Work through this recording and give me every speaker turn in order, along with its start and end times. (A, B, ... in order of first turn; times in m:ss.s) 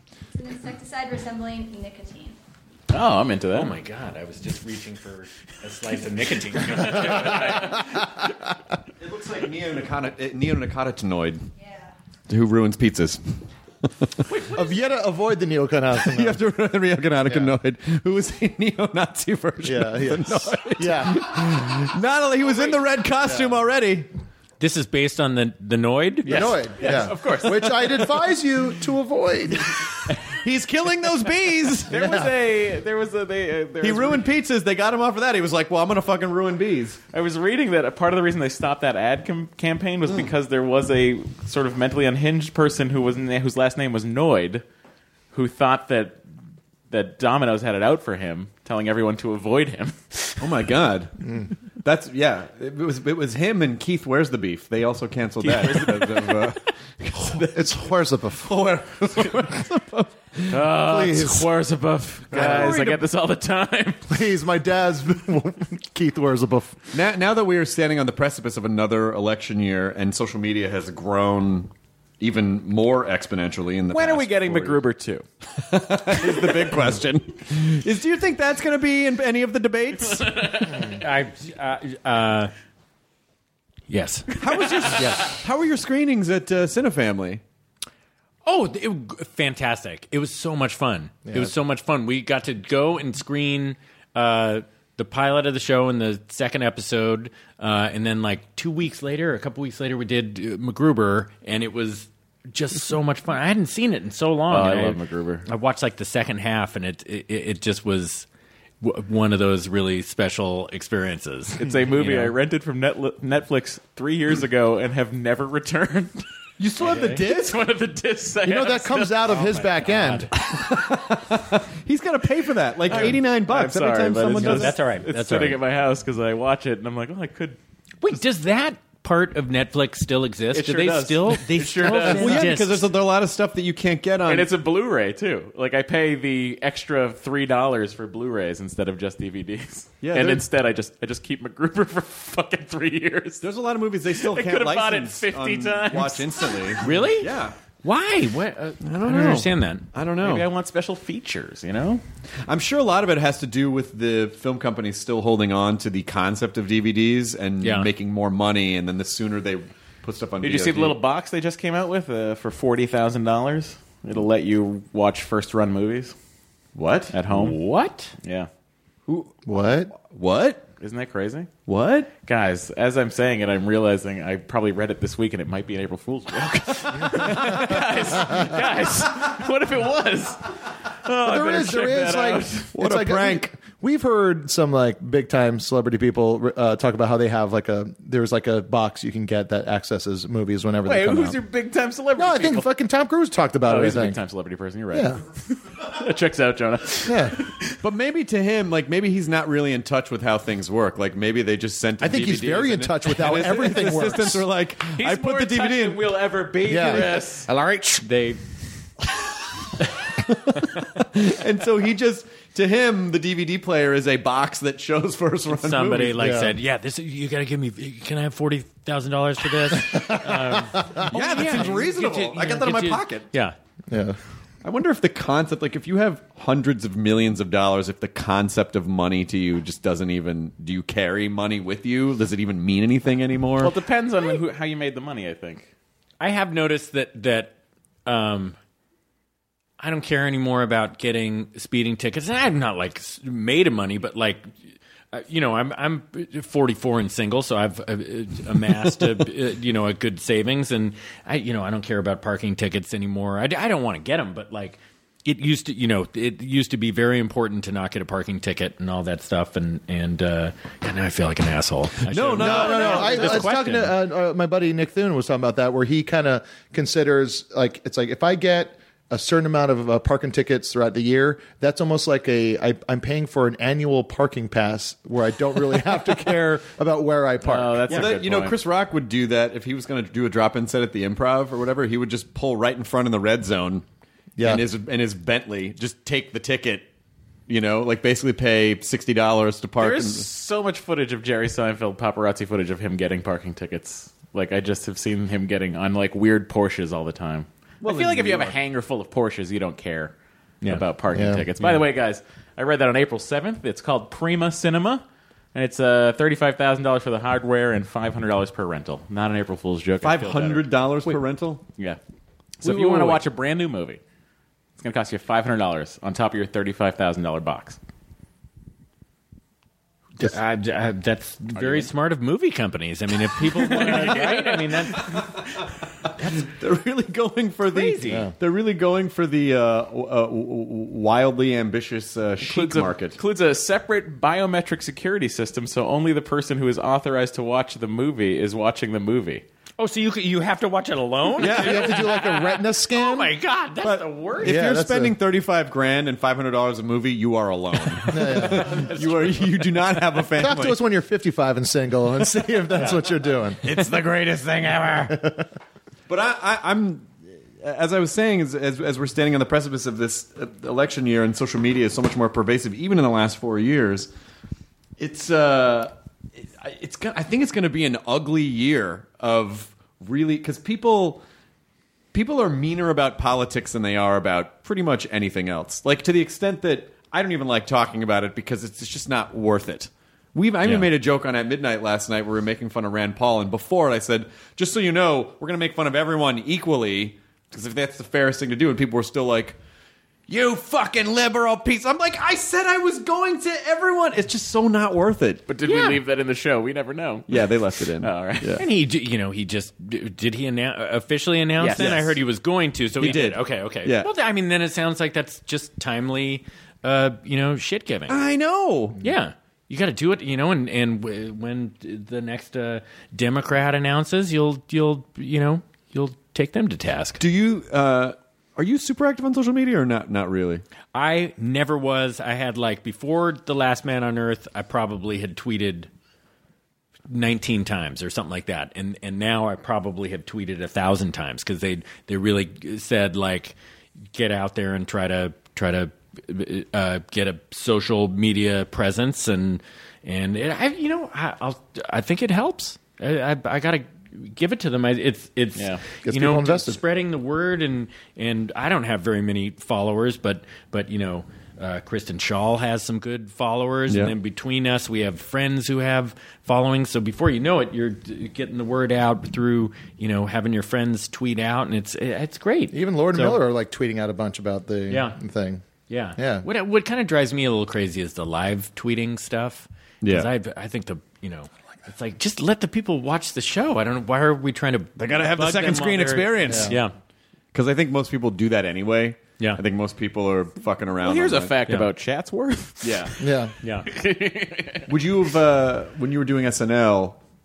0:00.3-0:02.4 A
0:02.9-0:03.7 B
0:03.5-0:07.7 C
0:06.9-0:07.7 B
0:06.9-0:07.8 D
0:09.0-0:11.4 E
0:11.6-0:11.9 A
0:12.3-0:13.4 E
0:14.3-0:14.6 C
0:14.5-0:16.4 D
0:16.0-0:24.1 E
0:17.2-0:17.5 D
0:19.6-0:21.4 D
0:22.4-0:22.8 B
0:24.6-0:26.5 C
0:26.2-0:28.1 B
0:26.2-0:29.7 D
0:30.3-0:32.1 E
0:31.9-0:34.3 B
0:31.9-0:32.3 D
0:33.8-0:37.0 E
0:37.1-0:44.6 B
0:45.3-0:46.2 B
0:46.9-0:50.4 B
0:50.4-0:51.3 E
0:51.2-0:51.5 D
0:51.8-0:57.7 E
0:55.4-0:56.5 B
0:57.4-0:58.7 D
0:58.4-1:00.7 E
1:00.5-1:04.0 B
1:00.7-1:01.5 D
1:02.3-1:03.0 E
1:02.3-1:02.8 D
1:04.1-1:06.9 D
1:06.9-1:14.8 E
1:13.9-1:15.2 B
1:15.6-1:20.6 E
1:20.1-1:21.0 B
1:20.8-1:22.5 C
1:23.9-1:25.3 C
1:24.4-1:27.4 E
1:28.4-1:48.3 C
1:31.3-1:31.5 D
1:44.5-1:45.4 B
1:48.8-1:52.3 C
1:51.6-1:56.2 B
1:56.6-1:57.7 E
1:56.8-1:57.2 C
1:56.9-1:59.6 B
1:58.4-2:00.3 D
1:59.3-2:00.3 C
2:00.4-2:04.8 E
2:02.8-2:07.6 B
2:04.4-2:05.6 C
2:08.0-2:12.9 C
2:10.5-2:12.5 B
2:11.9-2:14.5 E
2:14.2-2:23.4 B
2:20.0-2:20.4 E
2:23.4-2:27.5 E
2:24.1-2:27.0 B
2:26.8-2:27.3 C
2:27.8-2:29.9 C
2:28.8-2:30.4 E
2:30.2-2:32.0 B
2:32.4-2:41.0 E
2:37.6-2:37.9 C
2:40.4-2:46.1 B
2:46.8-2:47.6 B
2:47.3-2:48.1 C
2:48.2-2:48.5 B
2:49.1-2:49.4 E
2:49.4-2:49.9 D
2:50.0-2:50.6 E
2:50.8-2:51.5 B
2:51.7-2:52.1 E
2:52.2-3:02.7 B
2:57.2-2:57.9 E
3:01.1-3:11.4 D
3:02.7-3:03.5 E
3:10.8-3:12.7 B
3:12.1-3:14.2 D
3:13.6-3:17.7 B
3:14.9-3:15.2 D
3:17.0-3:17.4 D
3:17.8-3:26.3 E
3:22.0-3:24.4 D
3:25.0-3:27.5 B
3:26.6-3:27.3 D
3:27.5-3:28.4 C
3:31.0-3:36.2 E
3:35.5-3:43.6 C
3:36.1-3:36.5 D
3:39.9-3:41.1 D
3:41.0-3:43.3 E
3:43.9-3:44.2 D
3:44.6-3:53.8 E
3:53.6-3:55.7 B
3:56.2-3:57.5 C
3:58.0-3:58.6 C
3:59.8-4:04.5 C
4:05.1-4:24.0 C
4:22.1-4:23.6 E
4:22.4-4:38.0 D
4:37.4-4:38.6 B
4:37.9-4:43.8 E
4:44.4-4:44.6 D
4:44.4-4:46.9 E
4:47.5-4:50.3 E
4:49.8-5:11.2 B
4:57.8-4:58.6 E
5:01.1-5:01.5 D
5:10.0-5:11.6 E
5:12.6-5:14.0 B
5:12.6-5:13.2 C
5:14.8-5:17.8 B
5:20.2-5:25.2 C
5:21.6-5:21.9 B
5:23.6-5:24.7 B
5:26.2-5:26.5 C
5:26.4-5:33.2 E
5:27.7-5:28.3 C
5:28.1-5:28.3 D
5:32.4-5:39.4 B
5:39.8-5:44.6 C
5:41.4-5:42.1 E
5:41.4-5:43.3 D
5:43.8-5:50.8 E
5:44.4-5:45.1 D
5:48.1-5:48.9 D
5:48.5-5:49.4 C
5:50.4-5:53.6 D
5:53.6-5:55.1 C
5:53.7-5:54.2 E
5:55.1-5:55.5 D
5:56.1-6:04.1 E
6:05.0-6:11.2 E
6:12.1-6:29.6 E
6:20.6-6:20.9 C
6:30.3-6:35.4 E
6:35.5-6:38.6 B
6:35.6-6:36.0 C
6:37.3-6:38.6 E
6:38.6-6:48.2 C
6:41.6-6:42.2 B
6:43.0-6:44.1 E
6:48.1-6:49.0 E
6:49.0-6:57.2 C
6:57.2-7:00.6 E
7:00.9-7:05.9 C
7:07.1-7:13.6 C
7:14.1-7:43.4 C
7:25.6-7:25.8 B
7:26.0-7:26.8 D
7:42.7-7:45.6 D
7:44.9-7:45.2 C
7:45.9-7:56.9 C
7:46.2-7:46.5 D
7:50.0-7:50.3 E
7:55.0-7:56.8 E
7:56.4-7:56.8 D
7:57.5-8:01.6 E
8:01.0-8:04.9 B
8:02.8-8:03.1 E
8:03.2-8:03.5 D
8:03.6-8:03.9 C
8:04.9-8:07.2 E